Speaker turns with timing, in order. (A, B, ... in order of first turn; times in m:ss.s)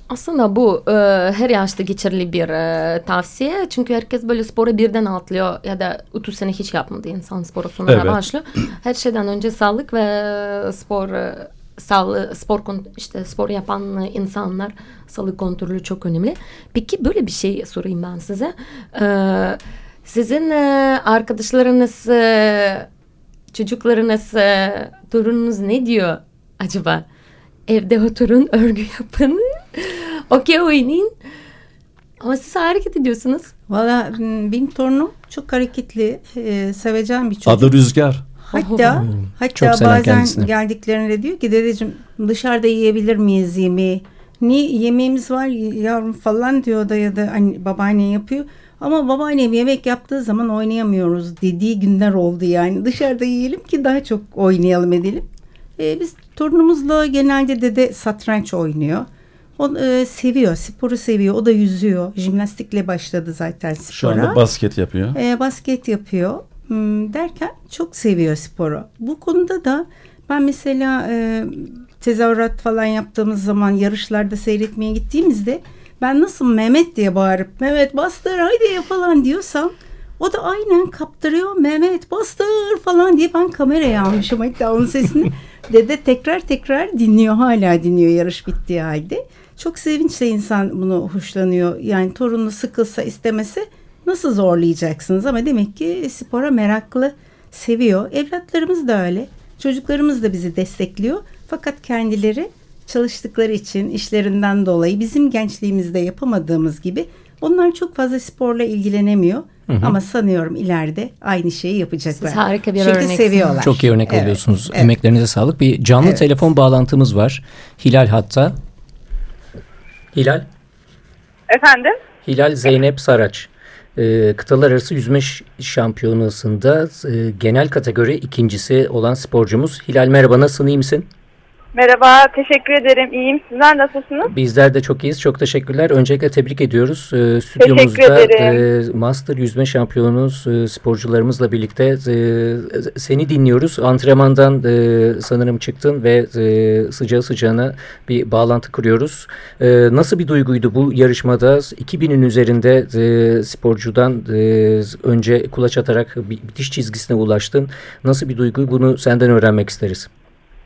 0:00.1-0:22.9 A
0:07.9-0:08.2 B
0:23.5-0:27.0 A
0:27.7-0:31.1 A
0:32.2-0:33.5 A
0:33.7-0:37.7 C
0:37.4-0:38.2 B
0:38.4-0:55.2 C
0:38.5-0:38.9 A
0:38.9-0:40.5 D
0:55.8-1:04.4 C
1:03.9-1:05.2 B
1:05.1-1:54.9 C
1:49.7-1:50.0 D
1:52.2-1:53.6 A
1:53.6-1:58.6 D
2:00.1-2:00.4 D
2:01.5-2:01.9 E
2:02.2-2:11.1 D
2:11.7-2:14.3 E
2:14.2-2:40.1 D
2:17.6-2:18.6 E